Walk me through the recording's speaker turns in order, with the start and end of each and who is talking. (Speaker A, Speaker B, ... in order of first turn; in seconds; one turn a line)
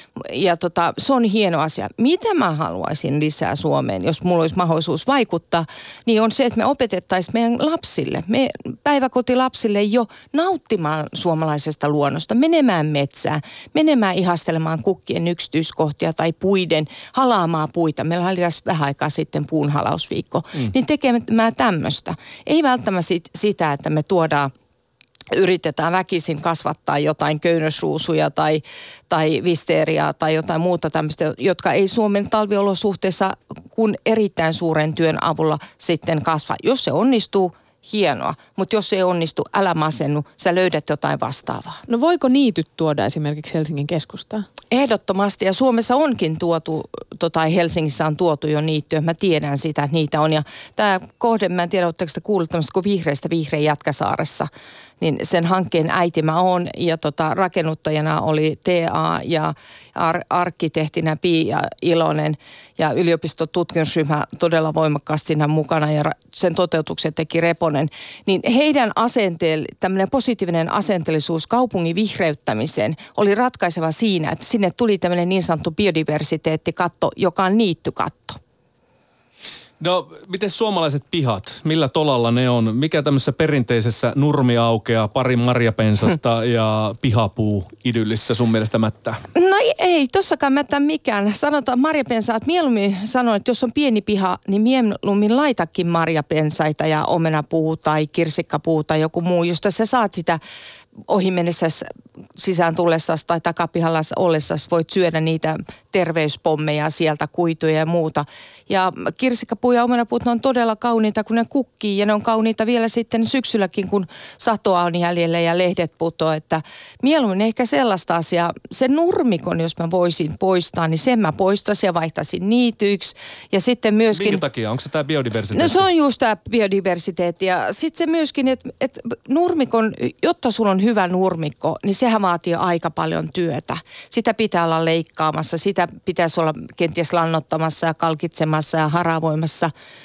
Speaker A: 0.2-24.5
Speaker A: 25.3-41.8
Speaker B: 41.9-44.5
Speaker A: 44.7-54.5
Speaker A: 55.0-78.4
Speaker C: 79.8-89.2
Speaker A: 89.3-100.4
Speaker A: 101.1-124.4
Speaker C: 124.1-125.8
Speaker A: 125.5-139.7